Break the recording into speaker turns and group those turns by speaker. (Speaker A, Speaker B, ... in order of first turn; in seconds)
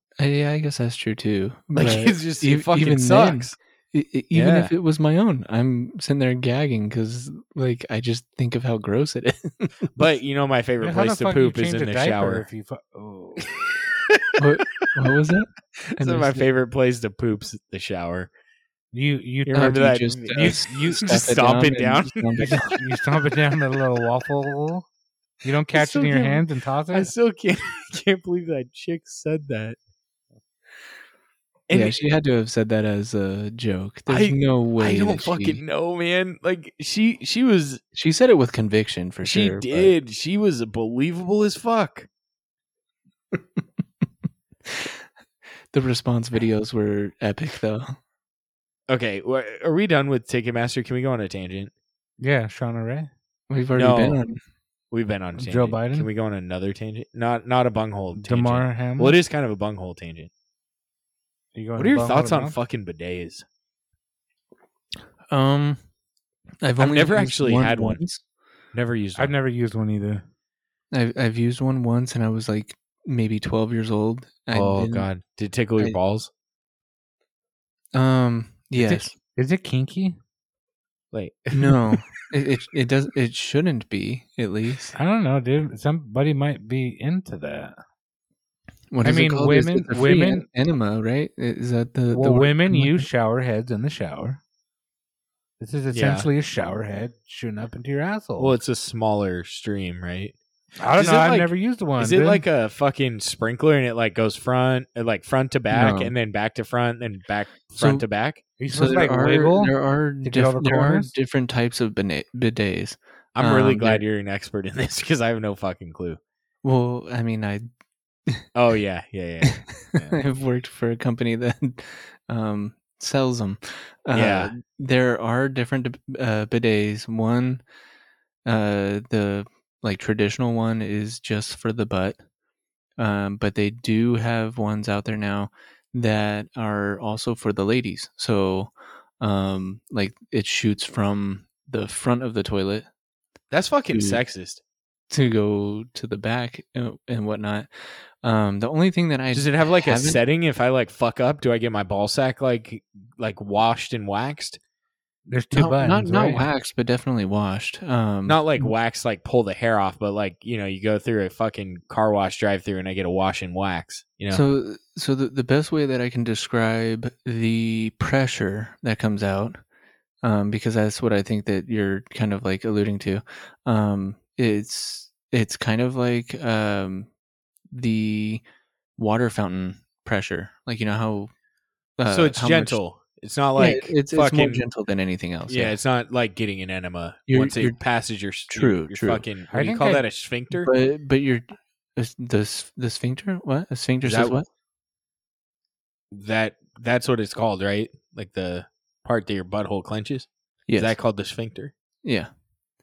Speaker A: 0.2-9.9, 14.4-16.5, 19.5-22.7, 31.7-35.6, 38.0-39.9, 44.7-45.0, 45.7-48.0, 53.5-54.4, 65.3-65.8, 66.6-68.2, 70.9-75.1, 78.0-79.1, 81.5-84.9, 88.9-93.1, 105.7-106.1, 107.8-108.1, 108.7-114.0, 116.6-117.7, 119.7-127.6, 128.4-132.2, 133.0-142.9, 143.9-144.2, 145.1-147.7, 148.2-150.2, 155.5-158.7, 164.3-169.6, 170.2-177.1, 177.7-178.4, 179.0-181.3, 182.0-182.8, 183.6-185.8, 187.3-187.8, 188.5-189.2, 190.5-194.5, 200.7-201.0, 202.0-202.3
Speaker B: 1.8-3.6, 4.3-4.7, 10.0-12.5, 15.9-18.3, 19.5-22.7, 25.7-29.8, 31.7-32.0, 34.1-37.8, 39.2-42.1, 48.9-51.7, 53.8-54.2, 54.9-60.3, 61.8-63.5, 66.8-68.0, 68.7-69.3, 74.5-76.3, 81.1-82.0, 95.9-96.3, 98.4-100.3, 101.0-108.4, 113.3-116.2, 118.5-120.2, 124.1-124.5, 143.5-144.6, 149.3-154.6, 158.3-164.4, 182.1-184.6, 185.5-190.7, 194.0-194.4, 196.1-201.7
Speaker C: 10.8-13.5, 18.9-21.1, 22.4-24.9, 25.4-27.1, 52.2-53.1, 55.4-56.1, 58.1-59.2, 61.5-62.6, 69.2-70.2, 78.8-80.2, 85.0-87.8, 89.0-90.5, 92.1-94.4, 95.6-98.6, 100.8-102.4, 108.6-109.7, 110.2-111.1, 155.3-156.5, 189.5-190.1